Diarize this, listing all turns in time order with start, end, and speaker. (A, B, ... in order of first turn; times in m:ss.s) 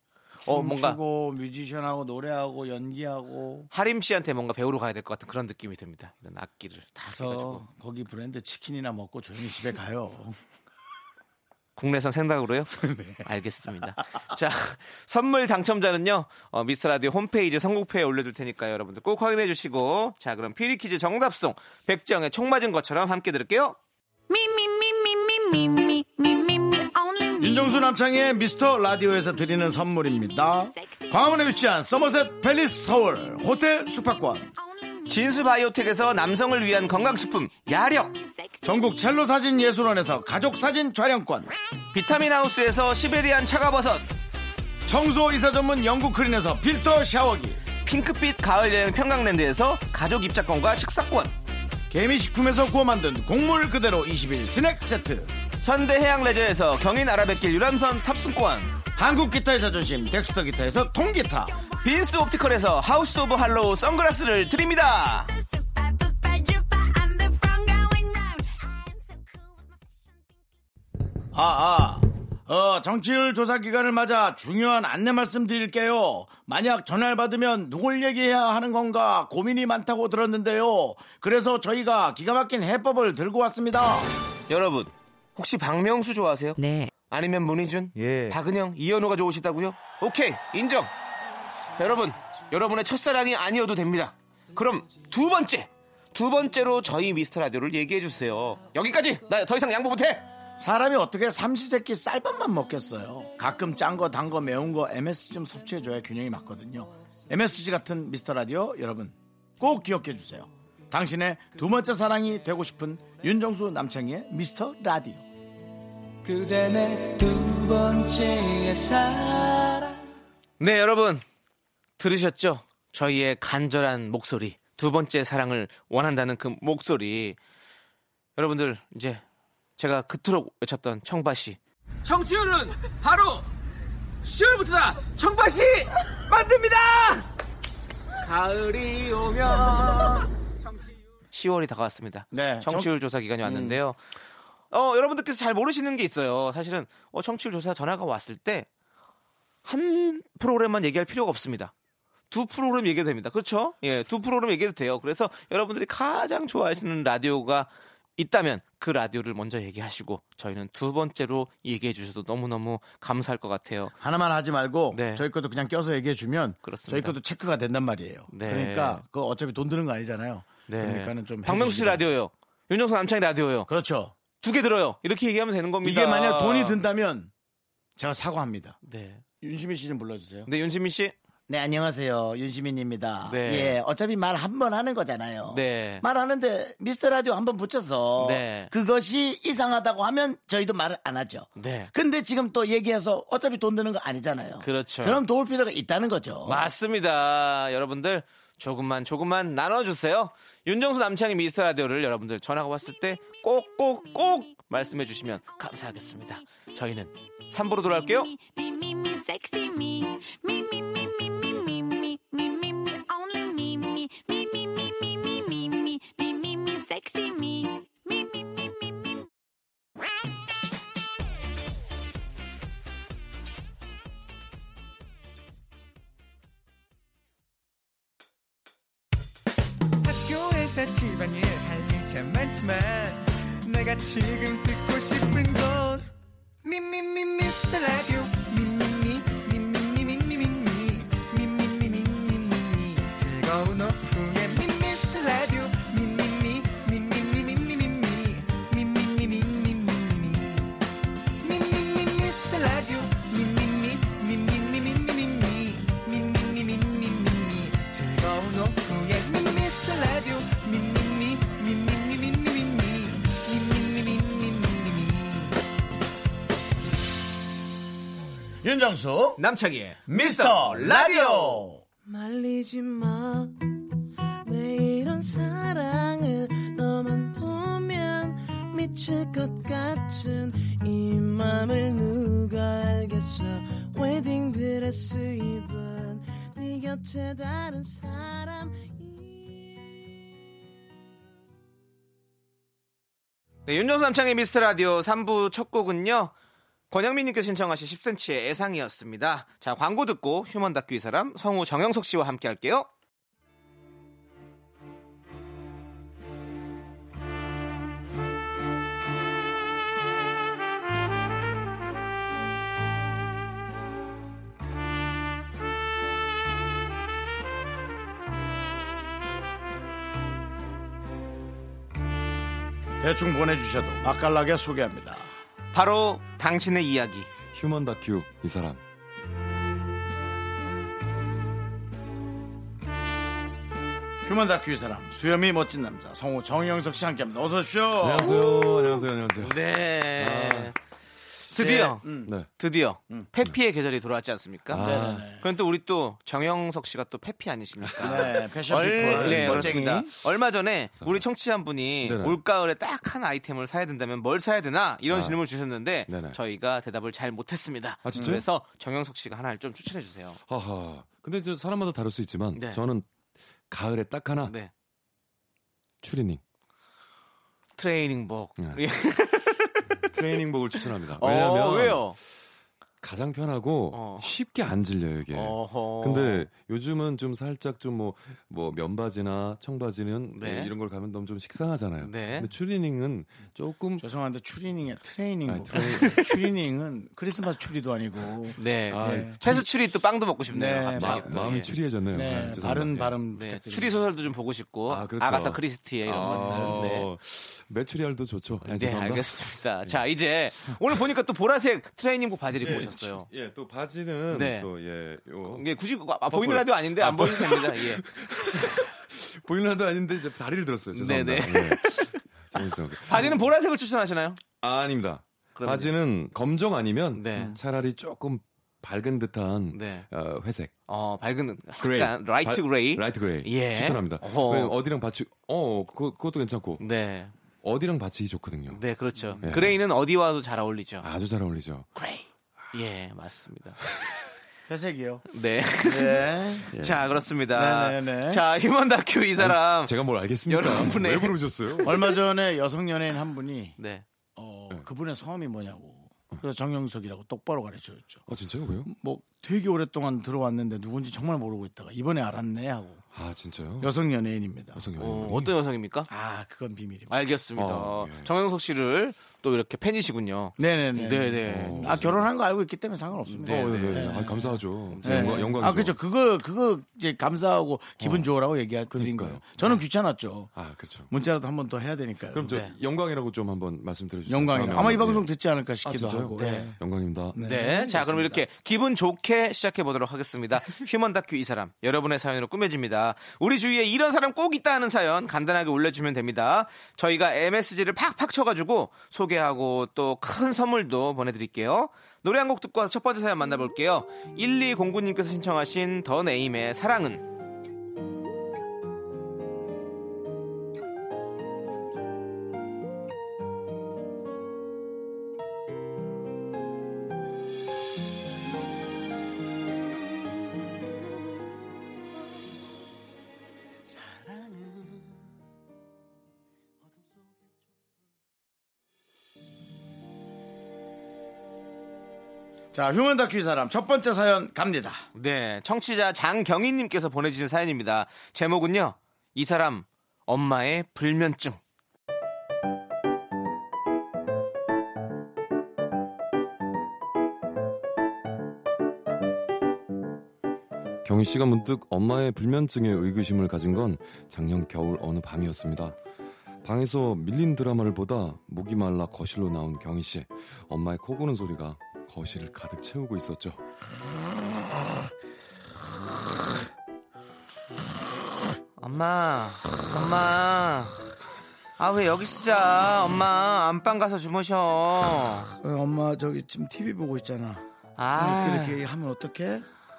0:00.4-0:01.0 A
0:00.4-0:03.7 B
0:03.7-0:07.6 A
0:07.0-0:10.4 B
0:11.8-0:23.8 A
0:12.7-0:13.3 B
0:24.3-0:27.9 C
0:27.4-0:34.5 B
0:30.3-0:31.4 C
0:34.6-0:35.5 C
0:35.1-0:38.1 A
0:37.6-0:39.1 C
0:38.6-0:41.5 B
0:41.9-0:44.0 A
0:44.8-0:47.6 B
0:47.8-0:51.3 A
0:51.9-0:55.3 B
0:55.6-0:58.7 A
0:59.0-1:01.6 B
1:01.6-1:02.5 C
1:01.8-1:05.3 A
1:04.8-1:10.6 C
1:11.3-1:24.1 B
1:24.5-1:30.9 A
1:31.8-1:40.3 A
1:40.6-1:55.2 B
1:56.2-2:00.0 D
2:00.6-2:01.2 A
2:02.0-2:07.4 A
2:08.4-2:09.2 A
2:09.8-2:13.4 A
2:14.2-2:17.2 A
2:18.2-2:20.2 A
2:21.3-2:24.0 A
2:22.3-2:22.9 B
2:23.4-2:23.8 B
2:24.7-2:28.7 A
2:29.6-2:31.7 A
2:32.3-2:43.9 A
2:44.0-2:52.1 B
2:44.9-2:45.2 A
2:46.6-2:47.2 A
2:48.3-2:49.0 A
2:50.7-2:53.7 A
2:53.7-2:54.1 B
2:54.4-2:56.8 A
2:55.8-2:57.3 B
2:58.0-2:58.8 B
2:58.8-2:59.2 A
2:59.4-3:00.5 B
3:00.4-3:01.1 A
3:01.5-3:16.7 B
3:03.2-3:03.8 A
3:05.5-3:06.0 A
3:08.2-3:08.7 A
3:11.6-3:11.9 A
3:14.6-3:15.2 A
3:16.4-3:28.3 A
3:27.8-3:39.3 C
3:50.0-3:56.1 E
3:56.6-4:10.8 E
4:11.4-4:25.6 E
4:28.6-4:29.4 B
4:29.4-4:31.6 A
4:30.1-4:31.8 B
4:32.0-4:50.0 F
4:53.6-4:56.3 A
4:56.9-5:02.9 A
5:23.0-5:25.3 B
5:25.7-5:27.3 A
5:27.5-5:28.8 G
5:34.2-5:38.5 B
5:38.0-5:40.7 G
5:38.3-5:40.7 A
5:41.5-6:00.4 A
5:41.5-5:42.3 B
5:42.2-5:42.5 G
5:44.7-5:45.3 G
5:44.7-5:45.4 B
5:47.8-5:50.0 G
5:48.0-5:50.1 B
5:51.0-5:51.2 G
5:52.0-5:52.4 G
5:55.1-5:55.4 G
5:56.1-5:56.4 G
5:58.0-5:58.4 G
6:00.5-6:03.0 G
6:02.5-6:02.8 A
6:03.7-6:04.5 G
6:04.4-6:04.7 A
6:06.0-6:06.4 G
6:07.8-6:09.9 A
6:10.0-6:12.2 G
6:11.2-6:12.2 A
6:13.0-6:24.0 G
6:13.9-6:14.3 A
6:15.3-6:16.5 A
6:20.3-6:20.7 A
6:22.0-6:22.5 A
6:24.0-6:29.4 B
6:25.5-6:26.3 G
6:25.7-6:26.4 A
6:28.6-6:31.7 A
6:28.9-6:29.7 G
6:30.5-6:31.5 B
6:30.9-6:33.2 G
6:32.1-6:34.0 B
6:33.3-6:37.1 A
6:34.9-6:40.0 G
6:36.3-6:36.7 B
6:38.6-6:43.3 A
6:42.6-6:45.6 G
6:44.3-6:44.7 A
6:45.5-6:48.0 A
6:46.3-6:53.5 G
6:50.9-6:54.4 A
6:54.6-7:00.7 G
6:55.6-6:55.9 A
6:57.1-6:57.6 A
6:59.7-7:00.1 A
7:00.9-7:04.7 A
7:01.8-7:06.8 G
7:06.8-7:07.3 A
7:07.6-7:08.8 G
7:08.7-7:11.1 A
7:09.2-7:09.4 B
7:09.4-7:09.8 G
7:11.0-7:11.9 G
7:11.9-7:13.8 A
7:14.7-7:15.2 B
7:15.3-7:19.9 A
7:15.8-7:16.7 B
7:16.7-7:17.2 G
7:17.5-7:18.4 B
7:19.4-7:22.0 G
7:20.5-7:22.1 A
7:21.8-7:23.8 B
7:23.8-7:24.0 A
7:24.4-7:28.3 B
7:28.3-7:28.9 G
7:28.8-7:33.0 B
7:33.1-7:33.9 G
7:33.8-7:34.8 B
7:34.7-7:35.6 G
7:35.0-7:36.1 A
7:36.1-7:37.1 B
7:37.1-7:42.1 A
7:37.5-7:38.3 G
7:40.6-7:50.5 B
7:41.4-7:42.3 G
7:43.3-7:44.2 A
7:43.3-7:46.0 G
7:44.9-7:45.7 A
7:48.0-7:48.3 G
7:48.9-7:49.7 G
7:50.6-7:51.1 G
7:51.1-7:52.5 B
7:52.3-7:55.3 G
7:52.5-7:52.7 A
7:54.3-7:56.8 B
7:55.8-7:57.4 G
7:56.4-7:56.7 A
7:57.3-7:58.4 B
7:57.3-8:17.2 A
8:42.7-8:45.0 B
8:45.1-8:51.6 A
9:01.0-9:06.0 G
9:06.6-9:13.6 G
9:18.8-9:21.0 A
9:21.8-9:25.5 A
9:25.6-9:27.6 B
9:28.0-9:28.8 A
9:28.1-9:29.6 B